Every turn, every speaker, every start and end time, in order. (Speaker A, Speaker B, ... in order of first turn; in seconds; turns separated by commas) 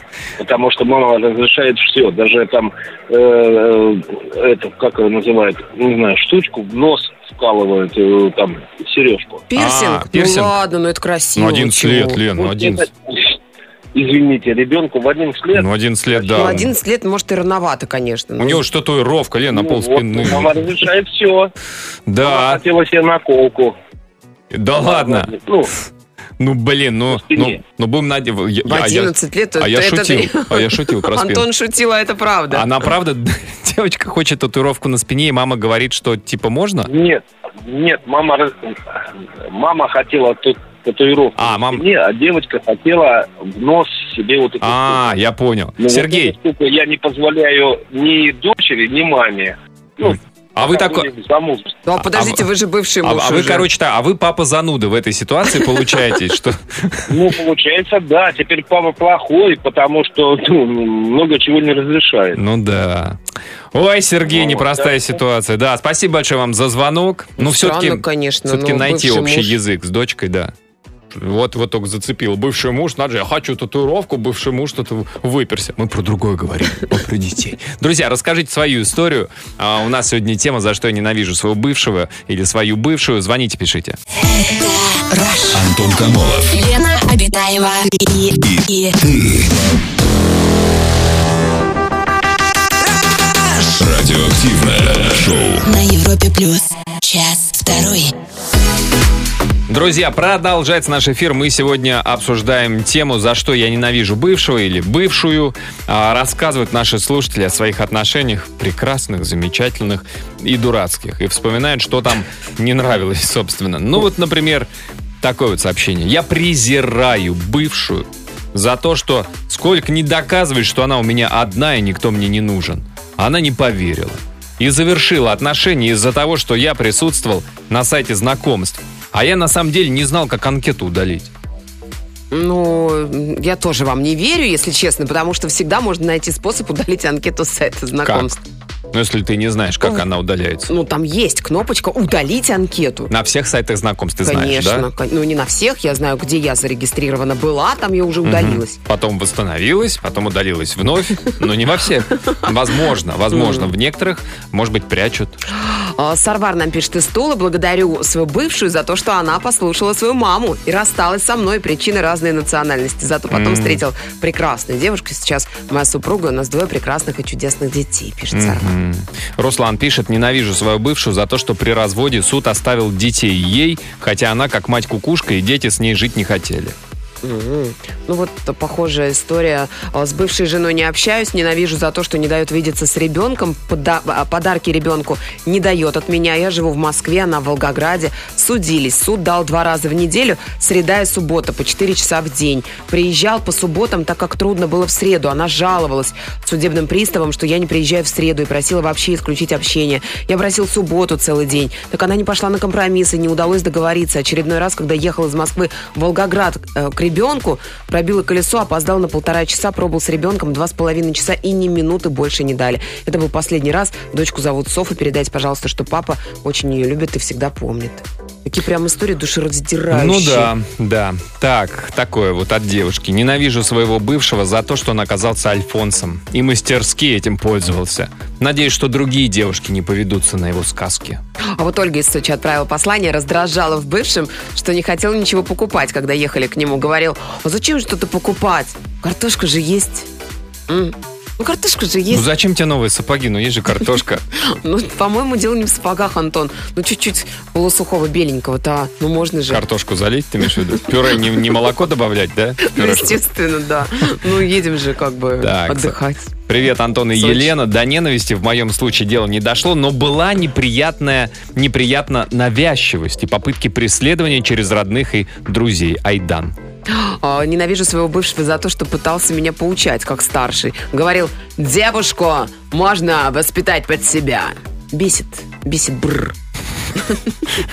Speaker A: 0.4-9.5, Speaker B: 9.5-12.2, Speaker C: 9.6-10.6, Speaker C: 11.4-12.9, Speaker A: 12.4-13.4, Speaker A: 13.9-15.7, Speaker C: 15.5-16.7, Speaker B: 16.3-18.6, Speaker C: 18.4-20.7, Speaker A: 19.5-21.5, Speaker C: 22.1-22.6, Speaker A: 22.2-23.8, Speaker C: 24.5-25.3, Speaker A: 24.8-25.7, Speaker C: 26.4-31.5, Speaker A: 27.1-27.6, Speaker B: 28.7-32.8, Speaker C: 32.5-36.9, Speaker A: 36.9-45.0, Speaker C: 41.4-41.9, Speaker C: 44.6-46.4, Speaker A: 45.8-51.8, Speaker C: 50.6-51.1, Speaker B: 51.9-53.7, Speaker C: 52.0-52.5, Speaker C: 53.0-57.1, Speaker A: 57.1-62.4, Speaker C: 62.3-63.2, Speaker C: 63.7-70.5, Speaker A: 64.3-65.1, Speaker B: 67.4-69.6, Speaker C: 71.1-84.0, Speaker D: 84.3-85.7, Speaker E: 85.5-86.5, Speaker D: 86.5-89.0, Speaker E: 88.4-89.5, Speaker E: 93.6-95.7, Speaker D: 95.6-98.1, Speaker C: 99.7-114.7, Speaker C: 115.2-131.3, Speaker B: 132.3-138.4, Speaker C: 138.0-138.3, Speaker C: 138.9-140.7, Speaker B: 140.7-143.1, Speaker C: 143.1-144.9, Speaker B: 144.2-148.8, Speaker C: 148.2-155.4, Speaker B: 153.3-153.7, Speaker B: 155.5-168.7, Speaker C: 163.3-163.8, Speaker C: 168.3-176.8, Speaker B: 177.2-220.5, Speaker C: 219.9-231.2, Speaker B: 231.6-240.1, Speaker B: 240.7-242.2, Speaker C: 242.1-244.2, Speaker B: 244.4-249.6, Speaker C: 249.5-253.2, Speaker B: 252.6-256.3, Speaker C: 255.4-256.0, Speaker C: 256.5-266.6, Speaker B: 257.1-257.6, Speaker B: 266.9-276.4